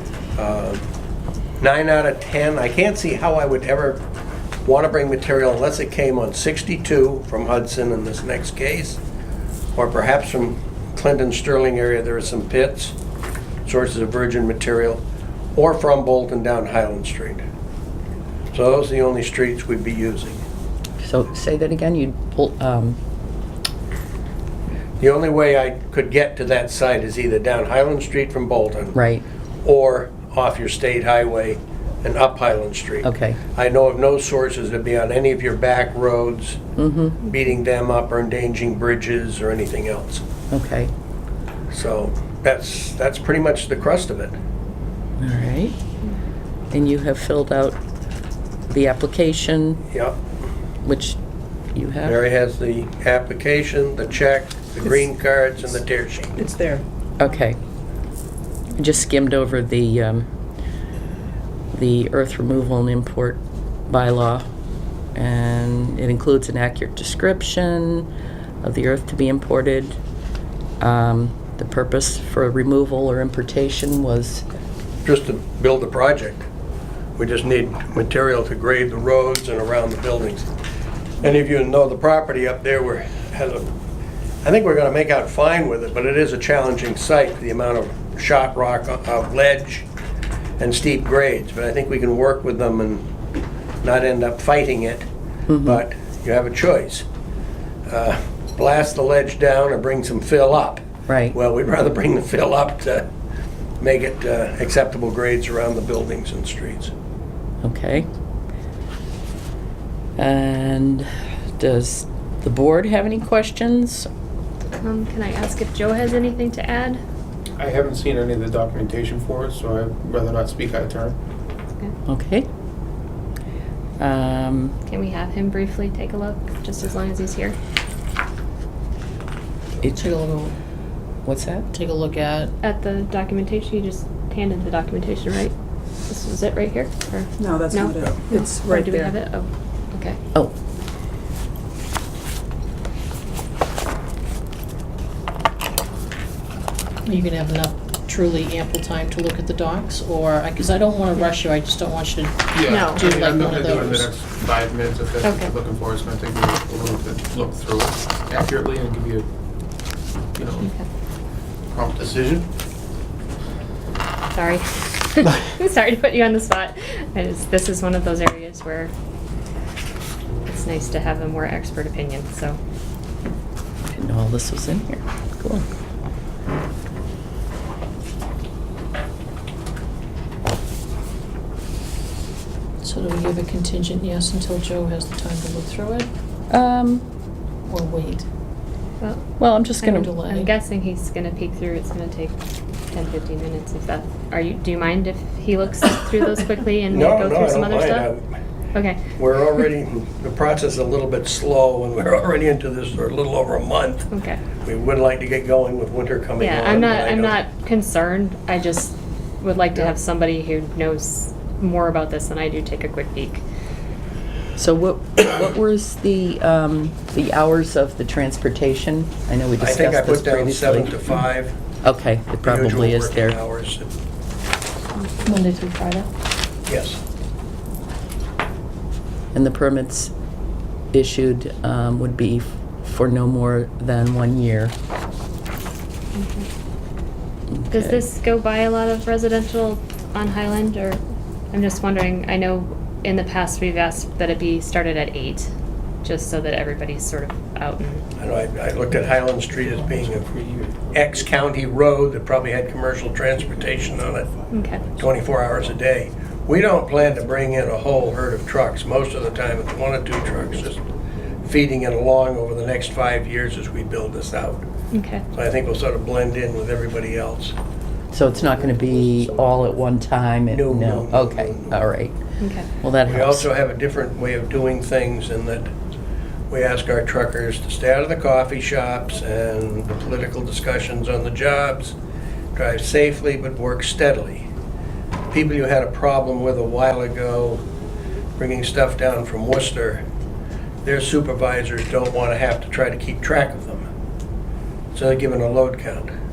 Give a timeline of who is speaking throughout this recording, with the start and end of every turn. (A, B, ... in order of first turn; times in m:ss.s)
0:00.4-0:00.8 A
0:01.6-0:04.0 A
0:04.6-0:09.0 A
0:09.7-0:12.9 A
0:13.6-0:15.0 A
0:15.5-0:17.4 A
0:18.5-0:20.4 A
0:21.0-0:23.0 B
0:25.0-0:29.0 A
0:28.9-0:29.2 B
0:29.6-0:36.6 A
0:33.0-0:33.4 B
0:36.8-0:37.2 B
0:37.2-0:40.2 A
0:40.5-0:40.9 B
0:41.7-0:44.3 A
0:45.2-0:45.7 B
0:46.7-0:47.8 B
0:48.7-0:49.8 B
0:49.9-0:50.2 A
0:50.8-0:51.2 B
0:51.7-0:52.2 B
0:52.0-0:56.4 A
0:56.4-0:56.8 C
0:57.2-0:57.6 B
0:58.8-1:00.3 B
1:01.7-1:04.4 B
1:05.1-1:08.1 B
1:08.6-1:10.0 B
1:10.8-1:14.4 B
1:15.0-1:16.5 A
1:17.2-1:20.5 A
1:21.2-1:23.7 A
1:24.4-1:29.9 A
1:30.6-1:33.0 A
1:33.8-1:35.1 A
1:35.5-1:35.8 B
1:35.6-1:37.0 A
1:37.9-1:43.1 A
1:41.1-1:41.3 B
1:43.8-1:46.9 A
1:47.6-1:48.1 B
1:50.2-1:54.1 B
1:54.8-1:57.0 D
1:57.6-2:01.2 E
2:02.0-2:02.5 B
2:04.0-2:04.8 B
2:04.9-2:07.6 D
2:09.8-2:10.1 B
2:09.9-2:10.5 F
2:11.2-2:11.7 B
2:11.7-2:12.5 F
2:12.6-2:15.5 D
2:16.1-2:20.2 D
2:17.4-2:19.2 C
2:27.0-2:34.1 F
2:32.5-2:39.3 E
2:32.7-2:33.1 D
2:35.2-2:35.5 D
2:40.3-2:40.7 E
2:41.7-2:42.4 E
2:44.3-2:48.9 D
2:50.4-2:52.6 D
2:53.9-2:55.7 B
3:02.8-3:06.1 F
3:06.5-3:07.0 B
3:07.7-3:08.2 F
3:09.0-3:09.3 D
3:09.4-3:10.1 B
3:09.8-3:12.3 D
3:09.9-3:10.5 F
3:12.9-3:18.1 D
3:16.9-3:18.2 A
3:18.7-3:19.0 D
3:19.2-3:24.1 A
3:24.1-3:24.4 D
3:24.6-3:27.4 A
3:26.4-3:33.4 D
3:34.6-3:41.0 B
3:39.6-3:41.6 A
3:41.8-3:43.4 B
3:42.4-3:43.9 A
3:45.2-3:46.1 F
3:46.7-3:47.0 A
3:49.3-3:50.1 B
3:50.9-3:54.7 B
3:56.1-3:56.5 D
3:57.5-3:58.0 B
3:57.7-4:01.0 D
4:01.5-4:05.5 D
4:06.0-4:08.0 D
4:08.2-4:10.3 A
4:09.9-4:10.7 E
4:10.9-4:14.3 A
4:14.5-4:14.8 D
4:15.0-4:20.8 A
4:21.4-4:24.6 A
4:24.9-4:25.2 D
4:25.3-4:27.6 A
4:28.1-4:32.2 B
4:30.5-4:31.8 A
4:32.4-4:32.7 D
4:32.8-4:33.5 B
4:33.0-4:35.7 A
4:36.5-4:41.9 A
4:42.5-4:44.5 A
4:45.3-4:47.6 A
4:48.4-4:50.0 A
4:50.8-4:53.8 A
4:54.9-4:56.1 A